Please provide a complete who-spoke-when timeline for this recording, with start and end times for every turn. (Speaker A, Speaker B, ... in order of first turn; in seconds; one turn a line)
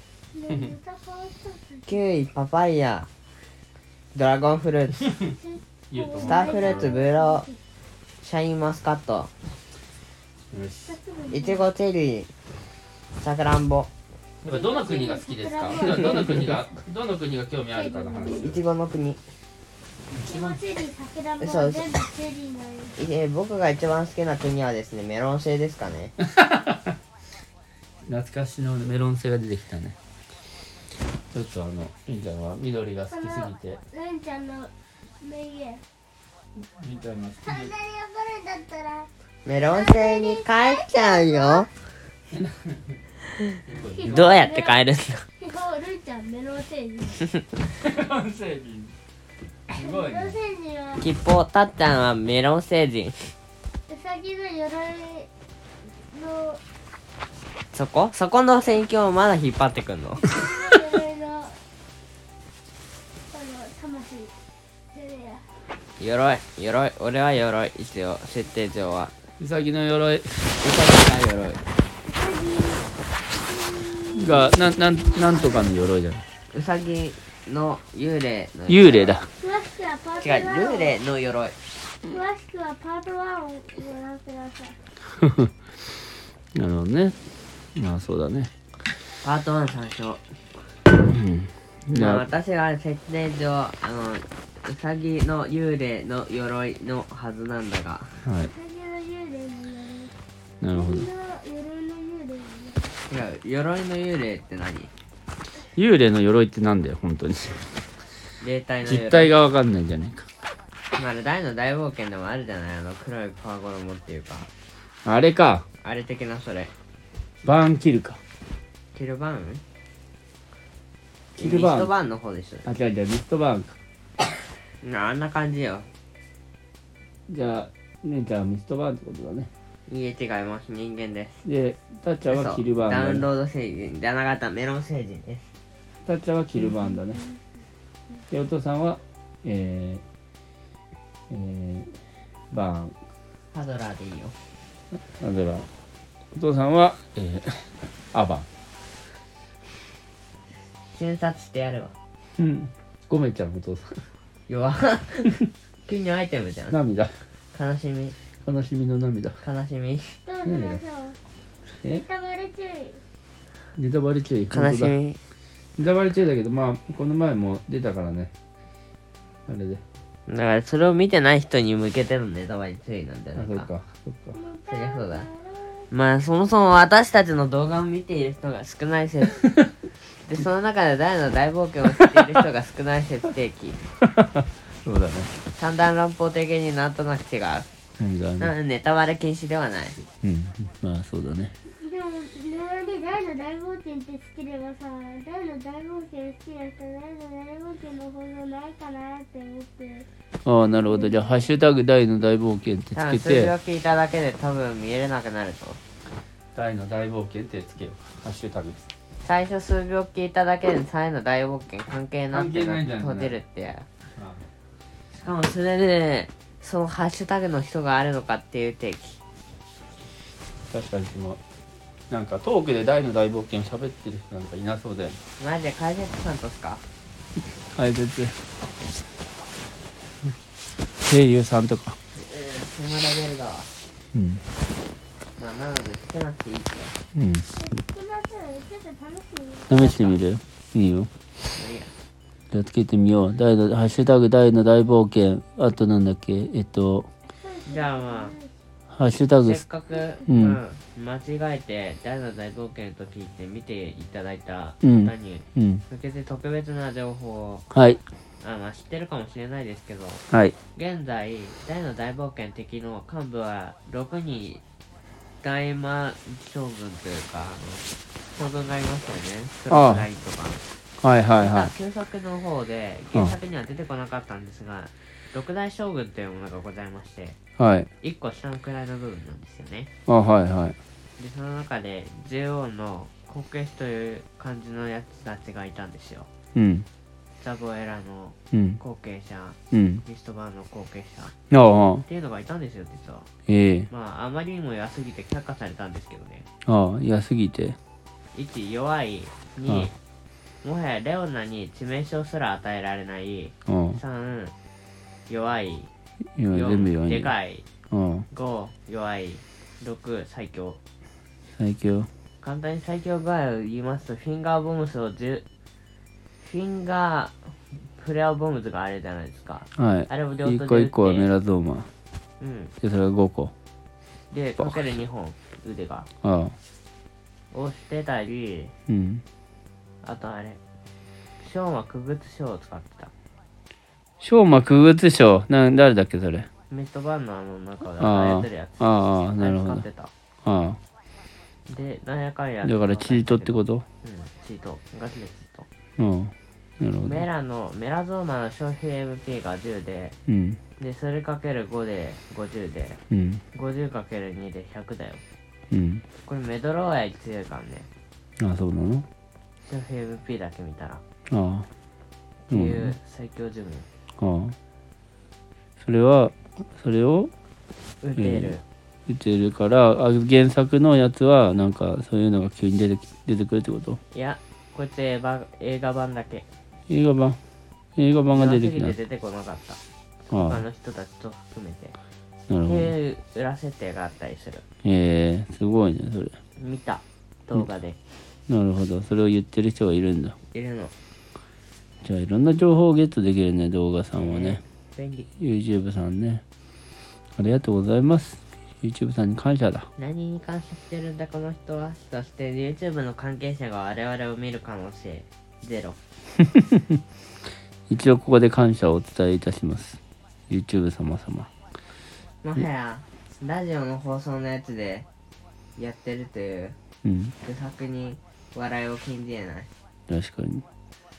Speaker A: 0.3-2.0
Speaker B: 1.9-3.1
Speaker B: 4.1-5.1
Speaker A: 5.2-7.6
Speaker C: 5.9-7.0
Speaker B: 6.2-7.5
Speaker B: 8.2-9.3
Speaker C: 10.5-11.0
Speaker A: 10.9-11.7
Speaker B: 11.3-12.3
Speaker B: 13.2-13.9
Speaker C: 14.4-18.6
Speaker A: 14.4-16.6
Speaker A: 17.7-18.6
Speaker B: 18.4-19.2
Speaker C: 20.1-20.6
Speaker A: 20.2-22.9
Speaker B: 21.4-21.9
Speaker B: 23.0-26.1
Speaker C: 26.3-26.9
Speaker C: 28.1-30.0
Speaker C: 31.3-33.8
Speaker A: 33.1-34.7
Speaker A: 35.2-35.8
Speaker C: 36.6-37.7
Speaker A: 37.5-39.1
Speaker B: 39.5-41.7
Speaker A: 39.7-41.7
Speaker C: 42.3-43.0
Speaker C: 43.7-44.4
Speaker A: 43.8-44.8
Speaker B: 44.1-45.2
Speaker A: 45.4-47.2
Speaker C: 47.7-49.0
Speaker C: 49.7-50.4
Speaker A: 49.8-51.1
Speaker B: 51.0-53.3
Speaker A: 53.9-55.3
Speaker A: 56.1-56.6
Speaker B: 57.7-60.3
Speaker A: 60.2-61.6
Speaker A: 63.3-64.3
Speaker A: 64.9-65.5
Speaker B: 66.0-69.1
Speaker C: 69.4-70.6
Speaker B: 70.6-71.6
Speaker A: 72.0-72.9
Speaker A: 73.5-75.8
Speaker C: 74.1-76.2
Speaker B: 76.5-79.2
Speaker C: 78.7-79.3
Speaker A: 79.4-80.9
Speaker B: 80.2-81.6
Speaker A: 82.0-84.8
Speaker C: 85.2-85.5
Speaker C: 86.5-87.2
Speaker C: 87.8-88.5
Speaker B: 89.2-90.2
Speaker C: 91.0-92.2
Speaker B: 91.9-98.3
Speaker C: 98.2-98.5
Speaker A: 98.5-100.1
Speaker C: 100.6-101.1
Speaker A: 100.7-102.8
Speaker B: 103.1-104.9
Speaker C: 105.7-107.8
Speaker B: 108.4-109.3
Speaker C: 108.8-110.3
Speaker B: 110.9-114.5
Speaker C: 115.0-115.7
Speaker B: 115.8-116.7
Speaker C: 117.4-118.2
Speaker B: 118.9-119.6
Speaker C: 121.4-121.9
Speaker B: 121.4-122.7
Speaker C: 122.7-123.7
Speaker B: 124.8-125.9
Speaker C: 127.3-129.5
Speaker B: 129.9-131.4
Speaker C: 131.4-133.3
Speaker B: 132.3-135.5
Speaker C: 136.1-137.2
Speaker C: 138.3-140.0
Speaker C: 141.3-142.0
Speaker C: 142.5-142.9
Speaker B: 143.5-144.4
Speaker C: 145.2-145.7
Speaker C: 146.3-148.5
Speaker B: 150.9-151.9
Speaker C: 152.4-154.1
Speaker B: 154.5-155.3
Speaker B: 155.9-156.8
Speaker C: 156.7-157.2
Speaker B: 157.5-158.2
Speaker C: 158.4-159.4
Speaker B: 159.4-160.2
Speaker A: 160.2-161.2
Speaker C: 160.4-160.8
Speaker A: 161.8-163.0
Speaker C: 163.8-164.9
Speaker B: 164.5-165.2
Speaker C: 165.8-168.3
Speaker C: 169.5-169.8
Speaker B: 170.3-173.7
Speaker C: 173.4-174.4
Speaker A: 174.3-175.9
Speaker B: 174.7-175.3
Speaker B: 175.9-179.4
Speaker B: 180.1-183.8
Speaker C: 182.0-182.3
Speaker C: 184.0-185.3
Speaker B: 185.6-187.7
Speaker C: 188.0-188.5
Speaker B: 188.4-190.0
Speaker C: 190.2-191.5
Speaker A: 191.7-200.1
Speaker C: 200.4-203.5
Speaker A: 200.7-201.6
Speaker B: 202.9-205.8
Speaker C: 206.5-208.8
Speaker B: 209.2-213.9
Speaker C: 212.3-213.4
Speaker C: 214.2-214.5
Speaker B: 215.1-219.2
Speaker C: 220.7-221.4
Speaker C: 222.1-225.2
Speaker B: 225.4-226.8
Speaker C: 227.7-228.4
Speaker C: 231.0-232.0
Speaker B: 232.1-233.7
Speaker C: 234.1-234.4
Speaker B: 235.4-237.0
Speaker C: 237.2-237.5
Speaker A: 237.6-239.8
Speaker C: 239.7-241.1
Speaker B: 239.7-240.2
Speaker B: 241.5-241.9
Speaker C: 242.5-247.1
Speaker A: 247.3-248.5
Speaker B: 247.7-248.3
Speaker C: 248.9-249.6
Speaker B: 249.3-257.6
Speaker C: 250.3-250.6
Speaker C: 254.8-255.8
Speaker C: 257.7-258.0
Speaker B: 258.4-260.2
Speaker B: 260.8-264.6
Speaker B: 265.4-270.6
Speaker C: 269.7-270.1
Speaker C: 271.0-271.7
Speaker B: 271.4-277.4
Speaker C: 277.6-277.9
Speaker B: 278.0-279.9
Speaker C: 280.1-280.8
Speaker B: 281.2-286.3
Speaker C: 286.5-286.9
Speaker B: 287.4-291.3
Speaker C: 288.5-288.8
Speaker C: 289.7-290.0
Speaker C: 291.5-292.1
Speaker B: 292.1-293.3
Speaker C: 293.5-293.9
Speaker B: 293.9-296.5
Speaker C: 296.6-297.8
Speaker B: 298.3-299.9
Speaker B: 300.6-304.5
Speaker C: 303.7-304.0
Speaker B: 305.3-305.9
Speaker C: 306.4-307.3
Speaker B: 306.5-307.6
Speaker C: 307.9-308.3
Speaker B: 308.3-310.8
Speaker C: 311.6-312.1
Speaker B: 312.4-315.4
Speaker B: 316.4-317.4
Speaker B: 317.9-321.3
Speaker C: 319.8-321.9
Speaker B: 322.4-322.7
Speaker C: 322.8-323.5
Speaker B: 324.3-326.1
Speaker C: 326.2-326.6
Speaker B: 327.5-328.7
Speaker C: 328.9-329.2
Speaker B: 330.0-330.6
Speaker B: 331.4-333.1
Speaker C: 334.2-336.5
Speaker B: 336.7-340.1
Speaker C: 338.0-339.9
Speaker C: 340.4-340.8
Speaker B: 341.7-345.7
Speaker C: 342.6-343.9
Speaker C: 346.0-347.2
Speaker B: 347.0-350.2
Speaker C: 350.3-350.6
Speaker B: 350.8-353.0
Speaker C: 353.1-353.4
Speaker B: 353.5-355.2
Speaker C: 355.7-356.1
Speaker B: 356.2-357.9
Speaker C: 358.4-359.1
Speaker B: 359.7-361.0
Speaker C: 361.3-361.7
Speaker B: 362.5-363.9
Speaker C: 362.5-362.9
Speaker C: 364.2-364.6
Speaker C: 365.8-367.3
Speaker B: 368.0-368.6
Speaker C: 368.2-374.0
Speaker B: 374.1-376.5
Speaker C: 376.9-377.4
Speaker C: 378.0-379.0
Speaker B: 378.3-379.8
Speaker C: 380.3-380.6
Speaker B: 380.4-382.0
Speaker C: 382.5-382.9
Speaker B: 382.6-384.6
Speaker C: 384.8-386.4
Speaker B: 386.6-388.0
Speaker C: 388.5-390.4
Speaker B: 390.5-390.9
Speaker C: 392.0-394.6
Speaker B: 394.1-395.3
Speaker C: 395.4-396.4
Speaker C: 397.4-399.9
Speaker B: 400.0-406.0
Speaker C: 406.5-406.9
Speaker C: 407.9-411.5
Speaker B: 412.4-415.1
Speaker B: 415.8-416.8
Speaker C: 417.0-417.4
Speaker B: 417.4-419.7
Speaker C: 420.1-420.6